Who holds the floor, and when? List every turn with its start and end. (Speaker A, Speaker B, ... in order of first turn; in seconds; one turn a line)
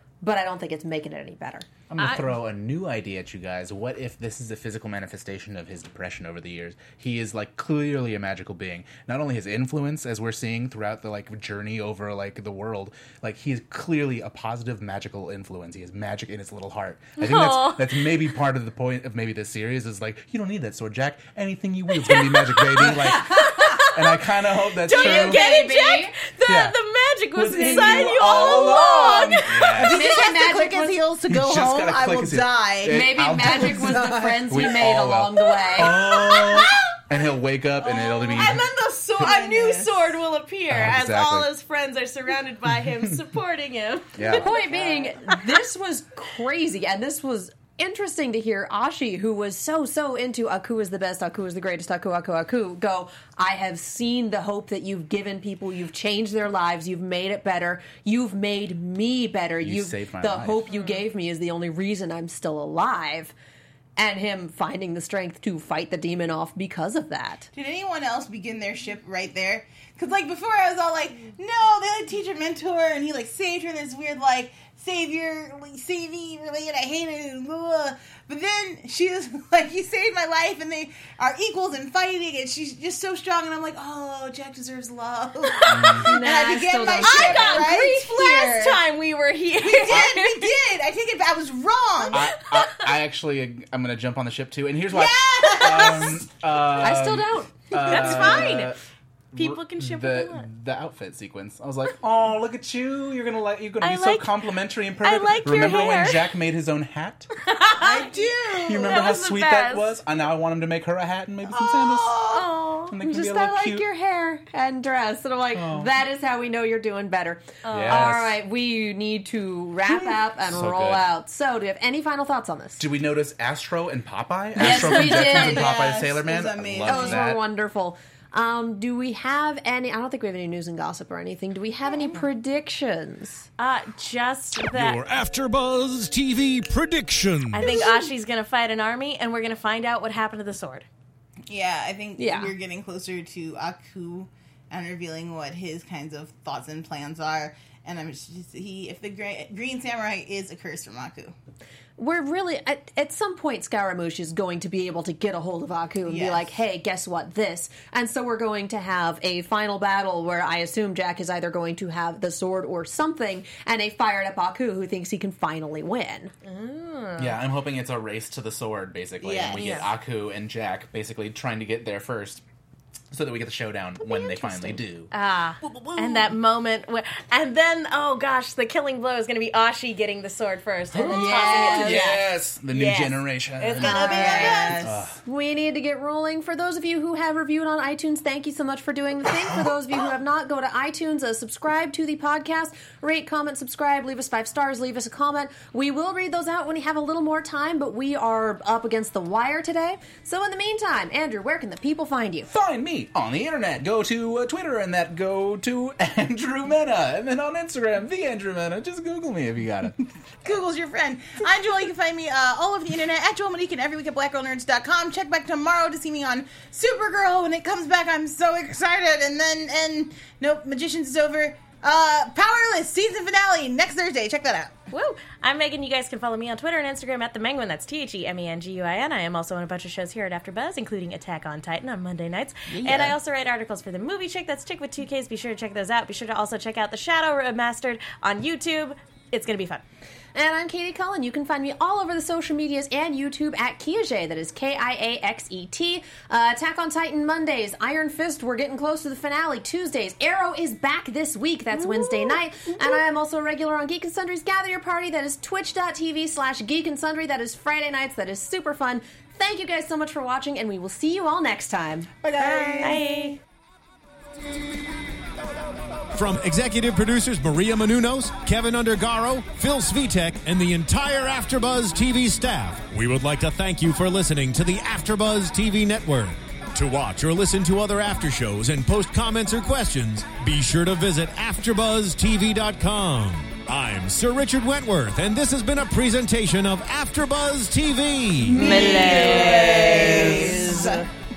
Speaker A: 0.2-1.7
Speaker B: 1.9-25.4
Speaker C: 2.0-2.4
Speaker C: 17.2-18.0
Speaker C: 22.1-29.9
Speaker A: 23.1-23.9
Speaker A: 24.9-26.1
Speaker B: 26.5-26.8
Speaker B: 27.3-30.1
Speaker D: 27.7-34.5
Speaker A: 29.8-31.0
Speaker B: 31.3-38.6
Speaker A: 32.9-36.1
Speaker C: 35.8-36.8
Speaker D: 36.1-36.6
Speaker C: 37.8-45.4
Speaker D: 38.3-38.6
Speaker D: 39.2-40.1
Speaker B: 40.7-41.5
Speaker B: 44.2-44.5
Speaker A: 44.4-63.3
Speaker B: 59.6-60.6
Speaker C: 60.7-61.0
Speaker A: 64.0-67.5
Speaker D: 67.5-88.8
Speaker C: 85.6-86.2
Speaker B: 85.7-86.1
Speaker A: 86.0-87.7
Speaker C: 87.0-90.6
Speaker D: 89.6-92.2
Speaker C: 92.1-92.9
Speaker B: 92.1-98.8
Speaker D: 94.9-96.2
Speaker C: 95.5-96.0
Speaker A: 96.8-98.6
Speaker C: 97.8-98.8
Speaker B: 99.3-107.3
Speaker C: 99.3-100.5
Speaker C: 103.8-104.3
Speaker C: 105.0-106.3
Speaker C: 107.4-110.0
Speaker D: 107.8-109.0
Speaker B: 108.7-112.2
Speaker D: 111.5-112.5
Speaker C: 112.3-113.0
Speaker B: 112.9-113.8
Speaker A: 113.0-122.8
Speaker B: 115.5-115.9
Speaker C: 117.6-118.1
Speaker B: 117.7-118.4
Speaker B: 120.5-121.1
Speaker B: 122.8-127.4
Speaker A: 124.6-125.7
Speaker D: 124.9-127.2
Speaker A: 126.8-133.5
Speaker C: 133.6-135.0
Speaker E: 134.7-137.9
Speaker C: 137.5-140.9
Speaker D: 137.7-138.1
Speaker D: 141.5-151.3
Speaker A: 142.2-142.5
Speaker A: 152.0-166.3
Speaker D: 156.1-156.5
Speaker C: 166.4-167.4
Speaker B: 167.2-172.4
Speaker D: 169.2-169.8
Speaker C: 169.5-169.9
Speaker B: 173.1-175.1
Speaker C: 175.1-184.8
Speaker B: 181.0-185.2
Speaker A: 181.0-182.2
Speaker A: 183.8-202.5
Speaker D: 183.8-184.9
Speaker B: 202.5-210.0
Speaker D: 210.4-224.8
Speaker C: 224.9-239.8
Speaker D: 232.7-233.2
Speaker A: 240.3-262.1
Speaker B: 262.2-263.0
Speaker D: 262.4-263.3
Speaker C: 262.8-263.4
Speaker E: 266.1-289.1
Speaker D: 288.5-291.0
Speaker A: 288.5-291.1
Speaker B: 288.8-290.7